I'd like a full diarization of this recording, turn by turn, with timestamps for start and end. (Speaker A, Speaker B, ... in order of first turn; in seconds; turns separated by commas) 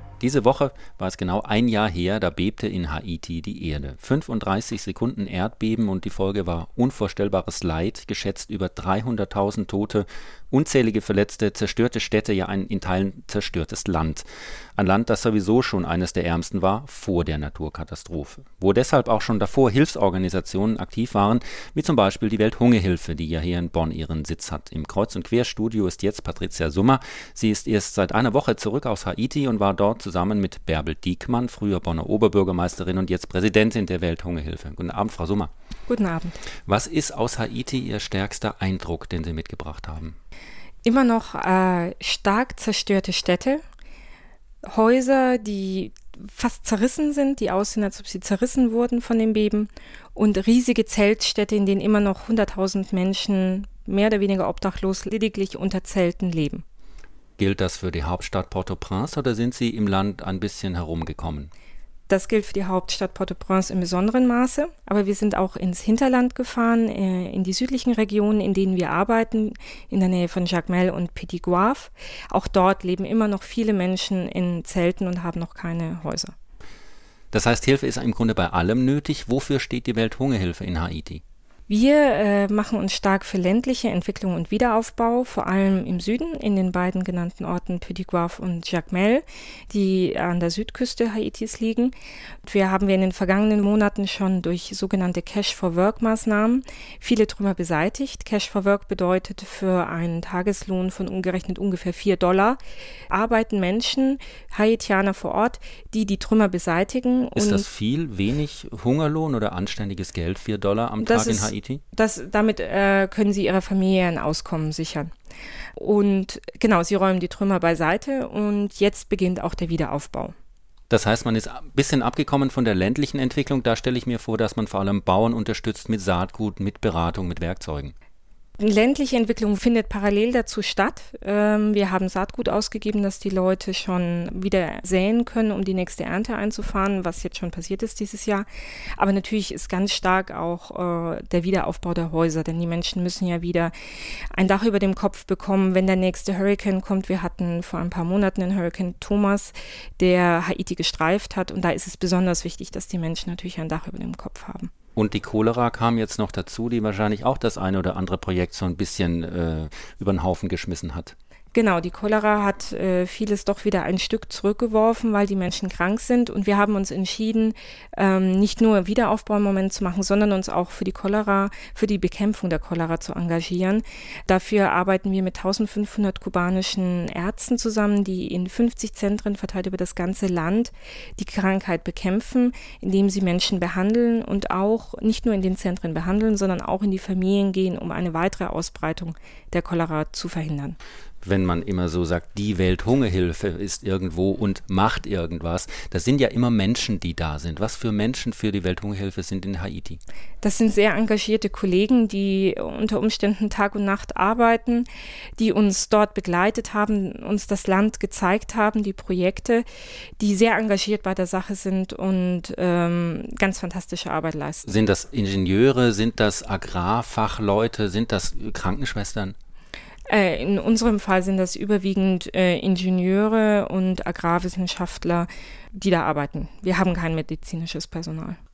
Speaker A: 0.2-35.5, Speaker B: 35.9-36.4, Speaker A: 36.6-40.2, Speaker B: 40.8-43.6, Speaker B: 44.6-56.6, Speaker A: 57.4-61.5, Speaker B: 62.1-76.3, Speaker A: 77.3-81.2, Speaker B: 81.7-102.6, Speaker B: 103.1-107.6, Speaker A: 107.3-111.8, Speaker B: 111.0-115.1, Speaker B: 115.8-120.3, Speaker A: 120.9-127.9, Speaker B: 128.6-143.7, Speaker B: 144.3-154.7, Speaker A: 154.9-161.1, Speaker B: 161.5-190.8, Speaker A: 191.2-200.0, Speaker B: 200.4-204.8, Speaker B: 205.4-209.7, Speaker B: 210.2-214.7, Speaker A: 214.6-219.3, Speaker B: 220.1-228.4